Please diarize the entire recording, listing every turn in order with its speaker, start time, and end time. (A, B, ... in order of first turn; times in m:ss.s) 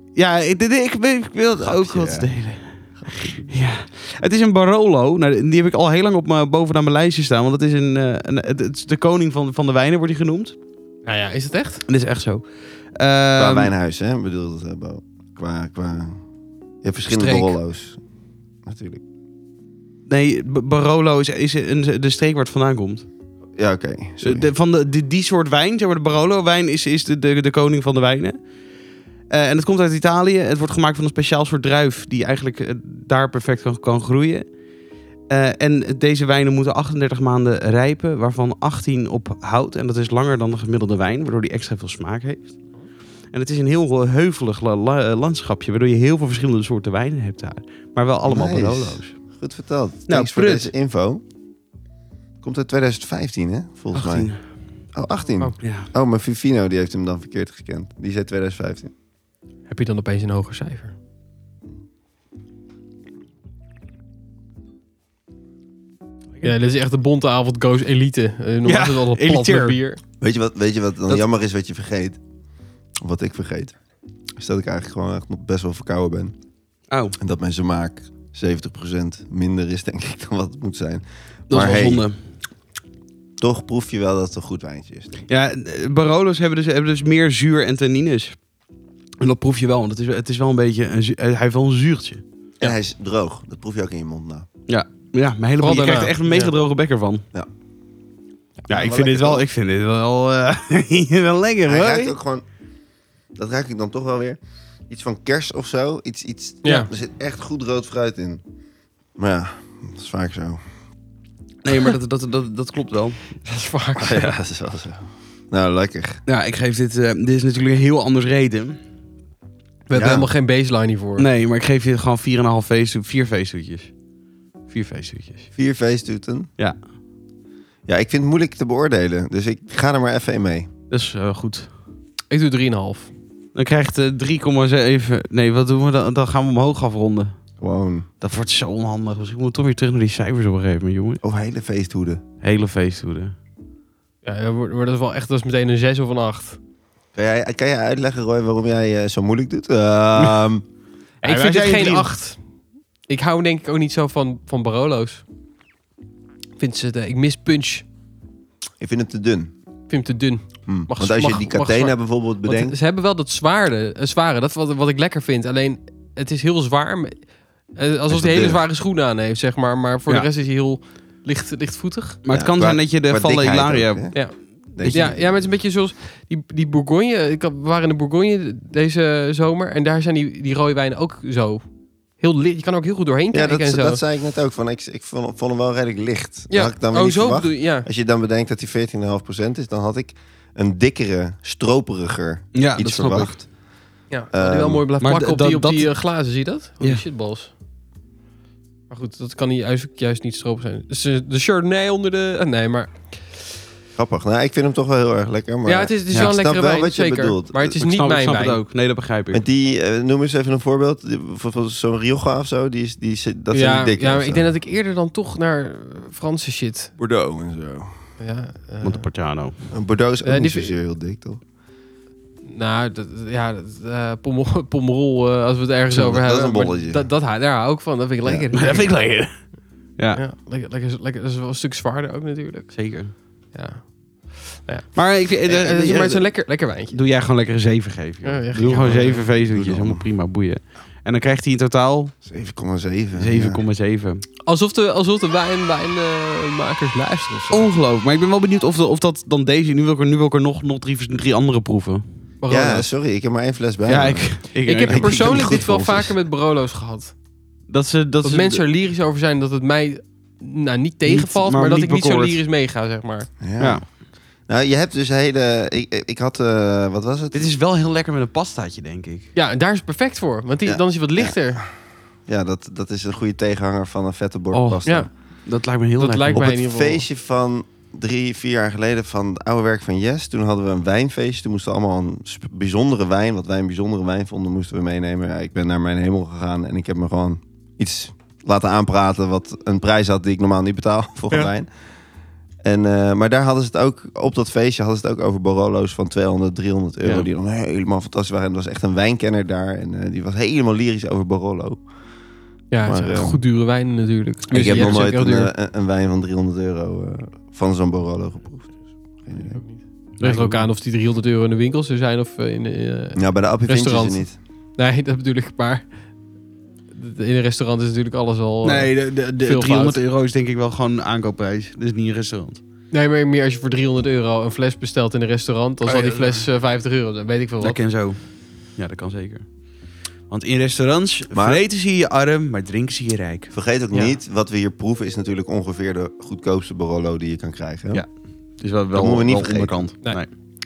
0:00.2-0:10.6 A
0:01.6-0:02.3 B
0:03.0-0:03.5 B
0:11.0-0:11.8 C
0:11.9-0:13.7 A
0:13.4-0:16.2 B
0:16.8-0:18.0 B
0:17.1-0:17.5 C
0:18.6-0:19.0 B
0:20.1-0:23.1 A
0:23.6-0:24.5 B
0:24.2-0:28.4 A
0:29.3-0:34.5 A
0:35.3-0:42.6 A
0:43.3-0:49.1 A
0:48.3-0:51.2 B
0:50.1-0:50.7 A
0:52.4-0:54.3 B
0:53.9-0:54.4 A
0:54.9-0:58.9 B
0:55.6-0:55.9 A
0:59.7-1:00.9 C
1:06.4-1:10.0 C
1:08.6-1:09.8 A
1:10.2-1:12.2 B
1:13.0-1:13.7 B
1:14.4-1:16.3 B
1:16.9-1:17.2 A
1:17.2-1:22.0 B
1:21.5-1:22.2 A
1:23.4-1:25.1 B
1:25.3-1:28.4 A
1:29.2-1:32.2 A
1:32.6-1:34.5 B
1:34.7-1:37.2 A
1:35.6-1:36.5 C
1:38.7-1:39.4 B
1:38.7-1:42.1 A
1:41.7-1:42.4 B
1:43.4-1:48.4 B
1:46.6-1:46.9 C
1:49.2-1:50.6 B
1:51.6-1:53.2 A
1:53.4-1:54.3 C
1:54.0-1:56.2 B
1:56.2-1:58.8 A
1:59.9-2:01.3 C
1:59.9-2:00.3 B
2:01.2-2:03.9 A
2:04.7-2:05.5 A
2:05.6-2:06.5 B
2:07.9-2:10.7 B
2:10.9-2:11.7 A
2:12.3-2:13.1 C
2:13.5-2:17.4 A
2:17.6-2:18.0 B
2:18.2-2:21.2 A
2:21.2-2:22.2 B
2:22.4-2:23.3 A
2:24.2-2:26.6 C
2:27.1-2:30.6 B
2:31.2-2:32.1 A
2:31.2-2:32.4 C
2:33.1-2:35.2 C
2:36.6-2:37.8 C
2:38.8-2:39.5 B
2:39.9-2:47.2 C
2:40.7-2:42.8 B
2:47.7-2:52.2 C
2:48.1-2:48.6 B
2:52.2-2:54.2 A
2:52.3-2:54.2 B
2:54.1-3:01.6 C
2:54.7-2:55.4 B
2:54.8-2:55.1 A
3:02.2-3:04.0 C
3:03.3-3:13.4 B
3:06.5-3:07.8 C
3:12.5-3:13.4 A
3:14.1-3:17.5 C
3:14.3-3:14.8 B
3:15.0-3:15.9 A
3:18.9-3:23.2 C
3:24.0-3:27.8 B
3:25.6-3:28.6 C
3:27.8-3:29.4 A
3:29.3-3:34.5 B
3:33.5-3:36.9 C
3:37.0-3:38.0 B
3:38.2-3:39.0 C
3:38.8-3:39.6 A
3:39.7-3:41.4 B
3:40.2-3:40.7 C
3:42.5-3:48.9 C
3:45.9-3:47.1 B
3:48.5-3:49.4 A
3:50.1-3:52.7 C
3:52.7-3:53.1 A
3:53.5-3:57.0 C
3:54.9-3:56.2 A
3:56.9-4:02.1 A
3:58.2-3:59.3 C
3:58.8-4:00.0 B
4:02.2-4:03.6 B
4:03.2-4:04.2 A
4:04.4-4:07.7 C
4:07.5-4:12.0 A
4:12.4-4:12.9 C
4:12.5-4:16.1 B
4:13.9-4:15.6 A
4:14.6-4:17.1 C
4:17.7-4:18.6 A
4:18.2-4:23.3 C
4:21.0-4:22.4 A
4:23.4-4:23.8 B
4:23.6-4:23.8 A
4:24.5-4:27.5 B
4:27.3-4:29.3 A
4:29.3-4:31.6 C
4:30.6-4:31.4 B
4:32.3-4:35.1 B
4:34.5-4:35.1 C
4:35.4-4:36.4 A
4:36.0-4:37.0 C
4:36.3-4:51.7 B
4:52.6-5:01.8 B
5:02.7-5:05.5 C
5:02.8-5:03.4 B
5:04.5-5:09.6 B
5:09.4-5:15.8 C
5:10.2-5:10.6 A
5:13.2-5:14.4 B
5:16.9-5:20.0 C
5:18.6-5:22.6 A
5:22.9-5:27.8 C
5:25.8-5:26.4 A
5:27.6-5:29.5 A
5:30.3-5:33.5 A
5:31.3-5:31.6 B
5:33.5-5:38.0 B
5:33.9-5:34.2 C
5:37.9-5:40.3 A
5:38.9-5:39.8 B